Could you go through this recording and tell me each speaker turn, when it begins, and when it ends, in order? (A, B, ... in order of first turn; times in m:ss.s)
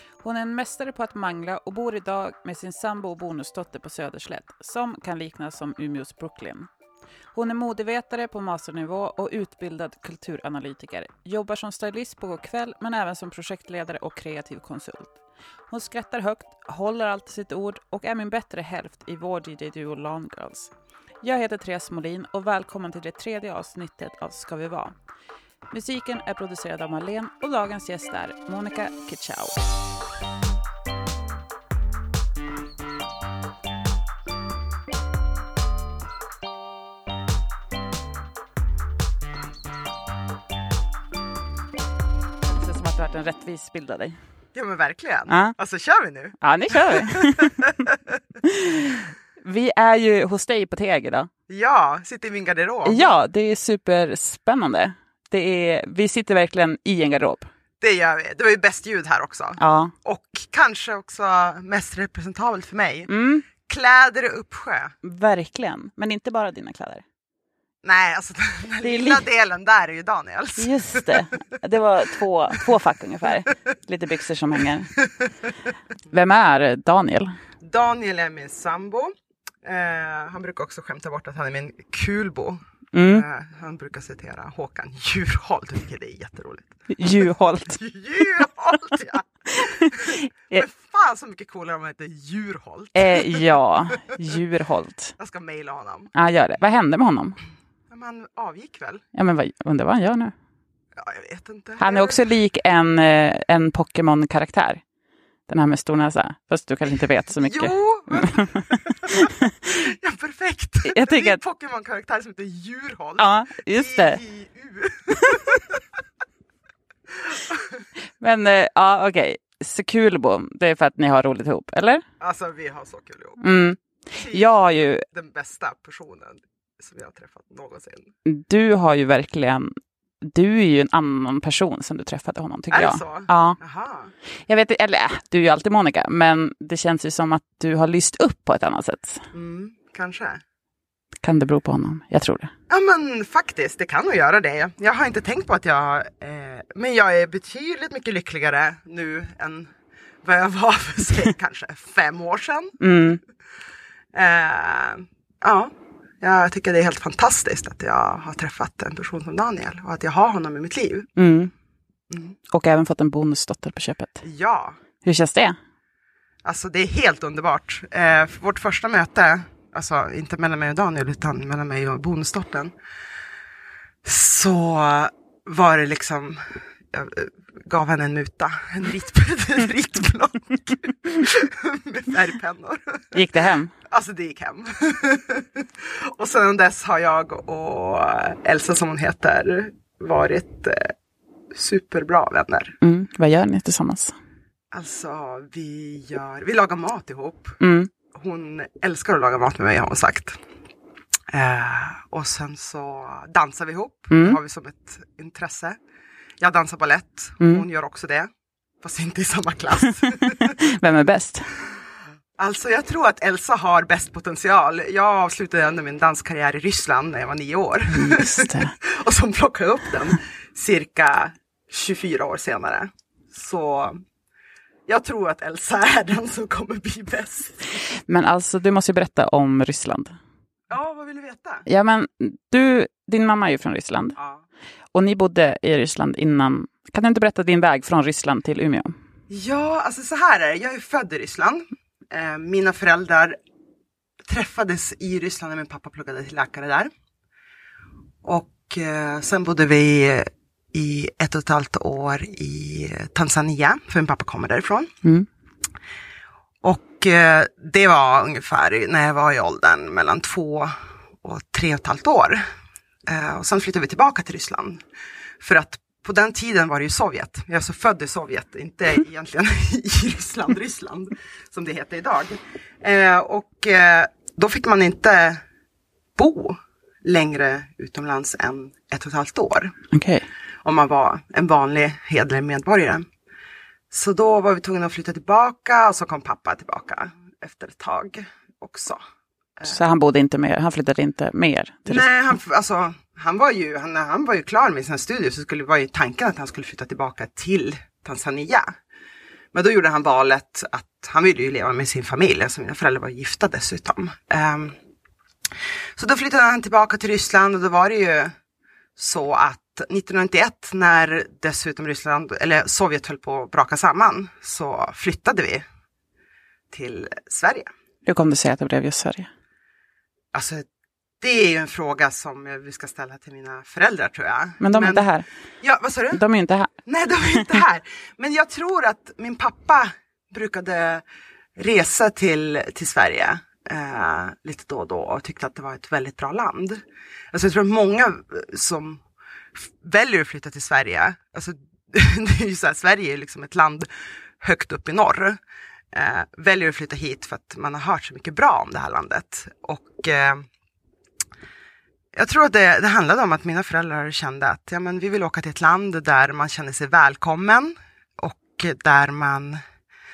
0:00.2-0:06.7 A
0:07.3-0:24.9 A
0:25.7-0:29.6 A
0:42.5-0:44.2 A
0:44.5-0:48.2 B
0:45.3-0:45.5 A
0:46.4-0:47.7 A
0:48.4-0:51.3 A
0:51.5-0:53.1 B
0:52.8-0:57.5 A
0:57.8-1:03.1 B
0:59.6-0:59.9 A
1:03.1-1:03.4 A
1:03.6-1:04.9 B
1:05.0-1:07.0 A
1:07.8-1:11.3 B
1:08.8-1:09.2 A
1:10.6-1:14.9 A
1:16.1-1:17.4 A
1:17.6-1:19.1 B
1:19.6-1:33.4 B
1:22.9-1:23.2 A
1:26.9-1:27.8 A
1:29.5-1:30.6 A
1:32.9-1:35.1 A
1:35.2-1:36.1 B
1:36.1-1:37.4 A
1:37.9-1:39.0 B
1:39.1-1:40.3 A
1:40.9-1:42.2 B
1:41.8-1:44.8 A
1:45.5-1:49.7 A
1:47.4-1:55.8 B
1:50.9-1:51.4 A
1:53.2-1:54.2 A
1:57.1-1:57.8 B
1:58.2-2:02.0 A
2:02.2-2:03.4 B
2:03.4-2:05.0 A
2:04.2-2:04.5 B
2:05.1-2:08.1 B
2:08.2-2:13.6 A
2:12.7-2:14.1 B
2:14.5-2:19.2 A
2:19.3-2:20.4 B
2:21.2-2:22.5 A
2:22.7-2:29.7 B
2:30.2-2:32.8 B
2:32.8-2:33.2 A
2:34.1-2:41.1 B
2:41.2-2:41.5 A
2:42.1-2:42.4 B
2:42.5-2:44.2 A
2:44.2-2:44.8 B
2:45.0-2:45.6 A
2:46.4-2:52.7 B
2:54.0-3:03.1 B
3:03.1-3:03.7 A
3:03.9-3:10.9 B
3:11.5-3:12.7 B
3:12.8-3:14.1 A
3:14.7-3:17.6 B
3:17.6-3:17.9 A
3:18.1-3:20.4 B
3:21.3-3:25.8 B
3:24.1-3:24.4 A
3:26.4-3:28.3 B
3:28.8-3:30.6 B
3:30.0-3:31.5 A
3:32.4-3:44.0 B
3:37.9-3:38.7 A
3:44.9-3:47.8 B
3:47.8-3:50.2 A
3:50.7-3:51.6 B
3:51.6-3:54.2 A
3:54.2-3:54.4 B
3:54.9-3:58.9 A
3:59.3-4:03.4 B
4:04.3-4:06.9 B
4:08.2-4:14.9 B
4:16.6-4:22.4 B
4:23.1-4:24.8 B
4:25.4-4:35.4 B
4:36.2-4:39.7 B
4:39.9-4:40.2 A
4:40.6-4:43.1 B
4:43.9-4:49.0 B
4:49.6-4:49.8 B
4:49.6-4:52.0 A
4:51.9-4:58.8 B
4:59.5-5:04.8 B
5:06.0-5:08.3 B
5:09.0-5:15.6 B
5:16.7-5:17.7 B
5:18.0-5:19.3 A
5:20.3-5:20.6 B
5:21.2-5:25.1 B
5:24.6-5:25.2 A
5:25.6-5:26.2 B
5:26.1-5:26.7 A
5:26.8-5:31.0 B
5:31.6-5:39.0 B
5:39.6-5:43.9 B
5:44.4-5:45.4 B
5:45.9-5:50.5 B
5:52.1-5:59.6 B